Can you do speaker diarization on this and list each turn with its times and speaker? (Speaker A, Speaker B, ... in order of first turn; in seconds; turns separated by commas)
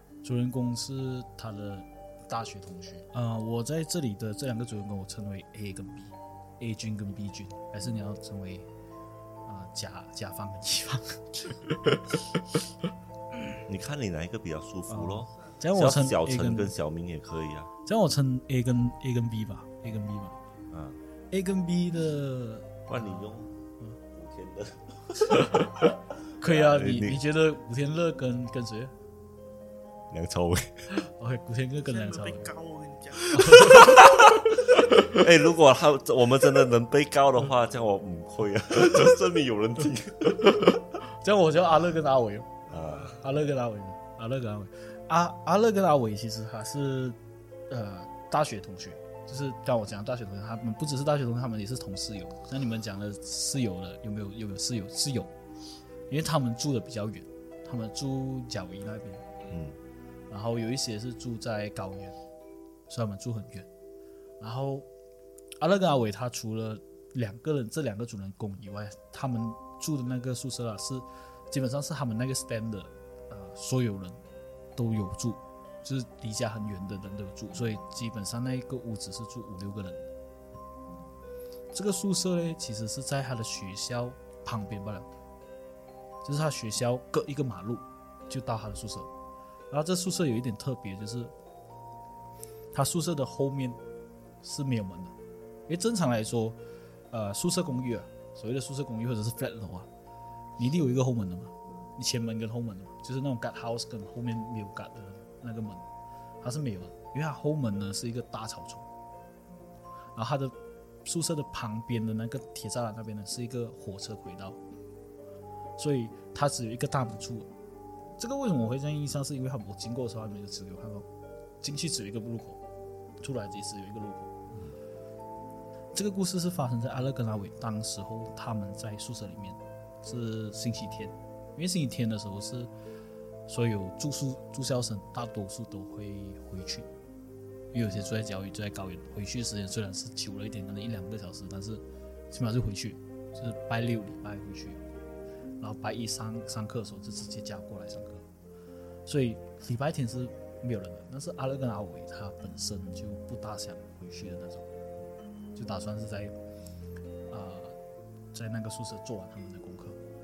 Speaker A: 0.2-8.7, Speaker A: 9.4-12.2, Speaker B: 13.7-17.7, Speaker A: 14.9-16.7, Speaker C: 15.3-15.6, Speaker A: 17.8-20.4, Speaker B: 20.7-21.0, Speaker A: 21.3-24.0, Speaker B: 22.9-27.2, Speaker A: 25.3-28.9, Speaker B: 30.1-30.9, Speaker A: 30.9-32.5, Speaker C: 31.8-33.8, Speaker A: 33.3-34.3, Speaker B: 33.4-40.8, Speaker A: 34.9-35.2, Speaker A: 40.3-42.6, Speaker C: 42.7-43.2, Speaker B: 42.7-43.2, Speaker A: 43.2-47.2, Speaker A: 47.7-55.3, Speaker A: 56.1-59.3, Speaker B: 59.5-59.8, Speaker A: 60.3-62.2, Speaker A: 62.9-63.7, Speaker A: 64.4-64.9, Speaker A: 65.6-74.2, Speaker A: 74.8-80.0, Speaker A: 81.7-85.1, Speaker A: 86.2-89.1, Speaker A: 89.7-91.3, Speaker A: 92.7-93.8, Speaker A: 94.4-95.1, Speaker A: 95.7-96.6, Speaker A: 97.1-99.9, Speaker A: 100.6-105.8, Speaker A: 106.4-108.9, Speaker A: 110.1-114.6, Speaker A: 115.8-117.5, Speaker A: 118.2-121.1, Speaker A: 121.6-122.6, Speaker A: 123.2-124.4, Speaker B: 124.5-124.8, Speaker A: 125.9-132.7, Speaker A: 133.5-136.9, Speaker A: 137.7-144.8, Speaker A: 145.6-148.3, Speaker A: 149.1-154.7, Speaker A: 155.5-156.3, Speaker A: 157.3-157.8, Speaker A: 158.3-160.0